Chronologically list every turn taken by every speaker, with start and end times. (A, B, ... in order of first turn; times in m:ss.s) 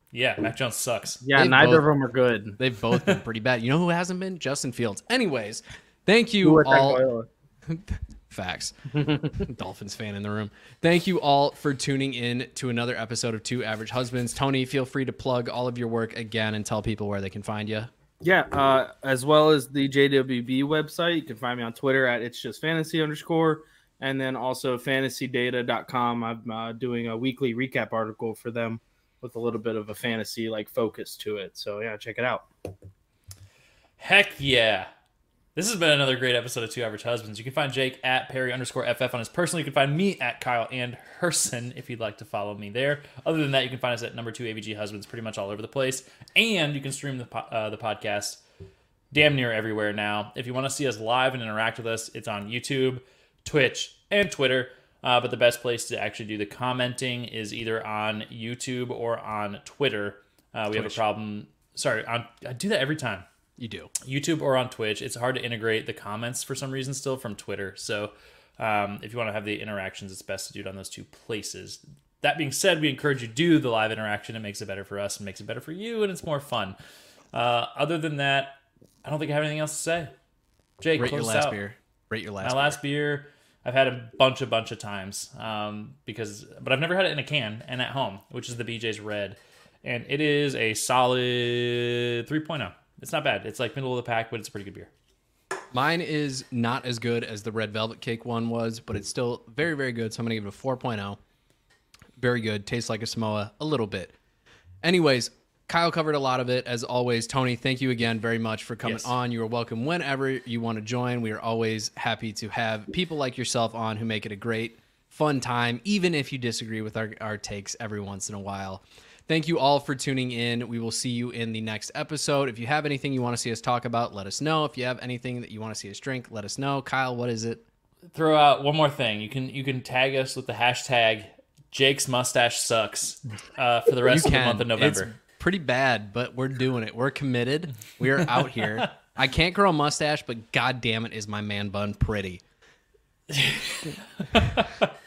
0:00.1-0:01.2 A
0:01.2-0:02.6 B
0:01.3-0:01.9 C
0:02.6-0:07.0 C
0:02.9-0:03.2 A
0:06.4-0:07.3 B
0:07.7-0:17.9 C
0:08.9-0:09.4 B
0:18.2-0:32.5 B
0:34.0-0:34.9 A
0:35.5-0:48.4 A
0:49.1-1:03.2 A
1:00.7-1:01.0 C
1:03.6-1:03.9 C
1:04.0-1:16.8 A
1:17.3-1:20.1 A
1:20.8-1:21.6 A
1:21.0-1:22.8 C
1:22.4-1:34.9 A
1:35.7-1:41.2 C
1:42.2-1:44.1 C
1:44.8-2:07.6 C
1:48.8-1:49.1 A
2:08.1-2:15.1 A
2:14.1-2:22.4 C
2:23.3-2:24.9 A